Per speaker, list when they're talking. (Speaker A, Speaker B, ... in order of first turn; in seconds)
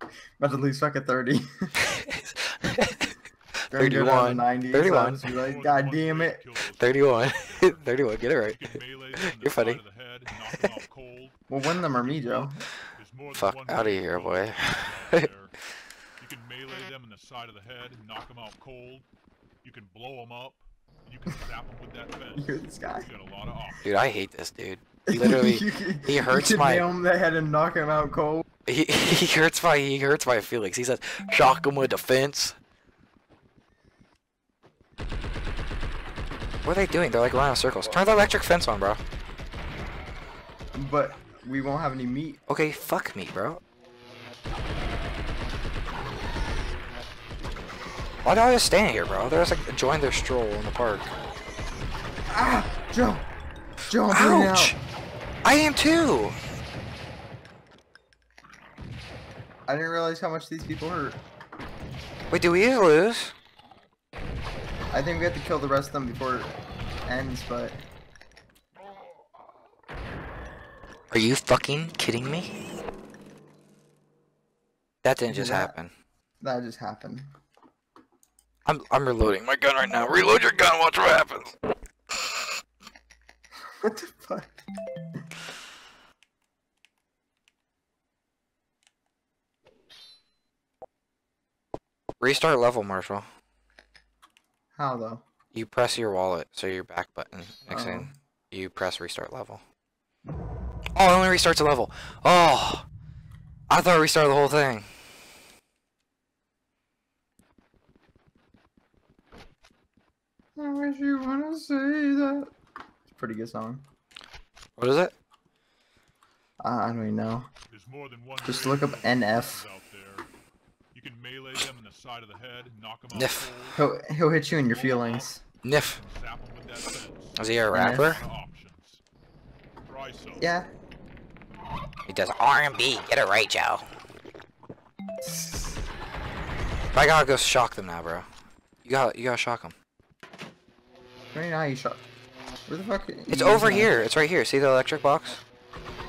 Speaker A: 0.4-1.7, 3.7-6.4, 11.5-12.6, 22.3-23.1, 25.1-28.4, 40.7-42.4, 52.3-53.2, 53.9-54.8, 59.7-61.2, 64.9-67.8, 75.3-75.7, 76.4-77.3, 83.8-84.6, 94.7-95.2, 97.7-98.1, 110.5-112.5, 113.1-113.8, 116.6-117.5, 118.4-119.6, 123.8-125.4, 127.7-128.2, 130.4-130.7, 135.2-135.7, 141.3-142.0, 142.7-143.9
Speaker B: 1.9-3.1, 3.7-5.2, 6.8-8.6, 9.2-9.8, 13.3-15.3, 23.8-26.9, 28.6-32.5, 36.6-39.0, 42.5-43.6, 48.2-51.1, 54.1-54.8, 55.4-56.4, 62.3-63.3, 71.1-72.5, 75.0-75.9, 78.7-81.6, 92.2-93.2, 95.5-99.6, 101.0-102.8, 103.7-104.9, 114.8-115.1, 123.1-123.5, 125.6-126.0, 127.4-128.2, 132.1-133.8, 136.9-138.2, 138.8-139.7, 143.3-145.4
Speaker C: 5.2-15.6, 16.2-19.1, 19.6-23.9, 117.7-120.3, 120.9-123.8, 124.5-129.0, 129.8-130.5